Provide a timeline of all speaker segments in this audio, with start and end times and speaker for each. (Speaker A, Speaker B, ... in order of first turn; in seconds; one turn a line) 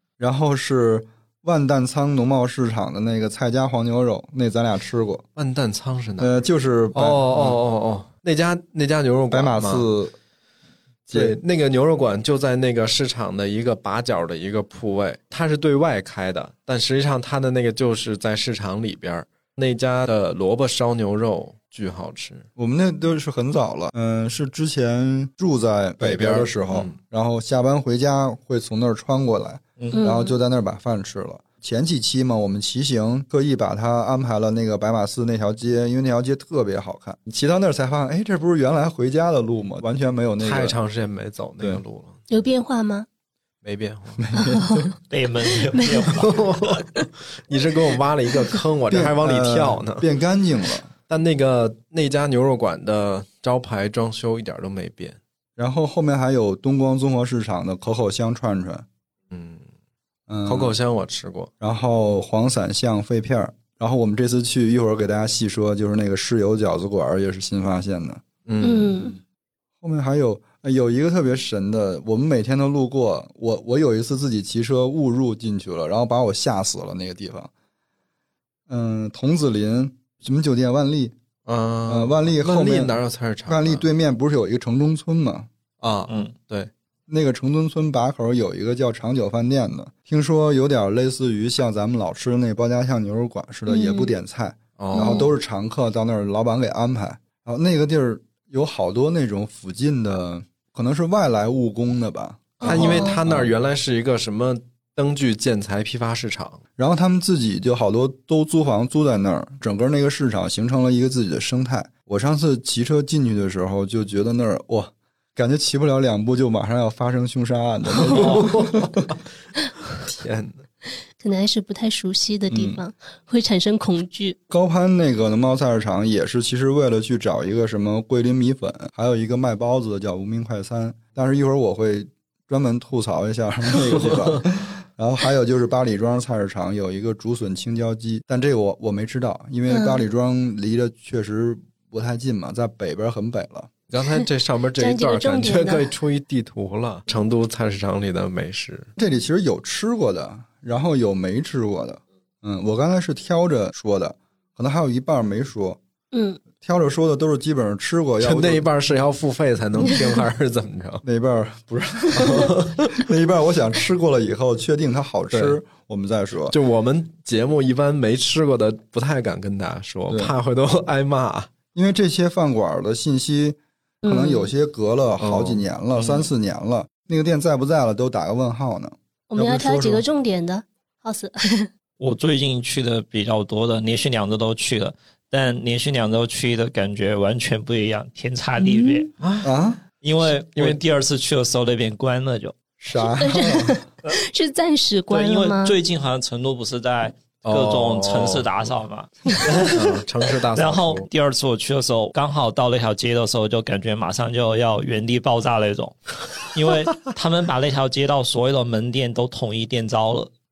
Speaker A: 0.2-5.2
Speaker B: 5.3-6.3
Speaker A: 6.2-7.6
Speaker B: 6.9-9.9
Speaker A: 9.3-10.2
Speaker B: 11.1-22.4
Speaker A: 22.6-40.8
Speaker B: 26.0-27.0
Speaker C: 29.8-30.0
Speaker D: 29.9-30.3
Speaker B: 40.4-42.3
Speaker D: 42.3-43.1
Speaker B: 43.6-44.2
Speaker A: 44.2-44.9
Speaker D: 44.4-44.9
Speaker C: 45.1-46.4
Speaker D: 45.7-46.1
Speaker B: 46.1-50.1
Speaker A: 48.9-50.9
Speaker B: 51.1-55.2
Speaker A: 55.6-58.9
Speaker B: 59.3-59.6
Speaker A: 60.3-60.7
Speaker B: 60.5-61.5
Speaker A: 61.6-68.2
Speaker B: 68.5-69.2
Speaker D: 68.6-69.2
Speaker A: 69.8-77.5
Speaker A: 78.7-81.2
Speaker B: 81.5-83.8
Speaker A: 81.9-83.0
Speaker A: 83.5-85.5
Speaker B: 85.8-86.7
Speaker A: 87.1-103.5
Speaker D: 93.7-94.1
Speaker B: 94.8-95.3
Speaker D: 94.9-95.3
Speaker D: 102.6-103.2
Speaker B: 102.6-106.6
Speaker A: 106.8-119.1
Speaker B: 118.0-119.2
Speaker C: 118.2-118.5
Speaker B: 119.9-120.6
Speaker D: 121.2-124.4
Speaker A: 122.5-122.8
Speaker A: 124.5-143.7
Speaker B: 133.9-134.4
Speaker D: 139.7-140.0
Speaker B: 143.9-148.9
Speaker D: 144.8-145.9
Speaker A: 149.0-155.8
Speaker D: 156.1-156.4
Speaker A: 156.5-158.6
Speaker B: 158.2-161.0
Speaker A: 161.0-166.6
Speaker B: 162.2-162.9
Speaker B: 165.3-165.6
Speaker B: 166.5-171.5
Speaker A: 171.7-180.0
Speaker D: 174.0-174.5
Speaker B: 175.2-176.2
Speaker D: 179.3-181.7
Speaker C: 182.0-189.1
Speaker D: 188.6-189.1
Speaker B: 189.2-189.5
Speaker A: 189.4-189.8
Speaker C: 190.0-192.6
Speaker B: 190.2-190.8
Speaker A: 192.8-193.8
Speaker D: 193.0-195.8
Speaker C: 195.1-200.0
Speaker B: 197.4-198.7
Speaker B: 199.6-201.1
Speaker C: 200.5-210.3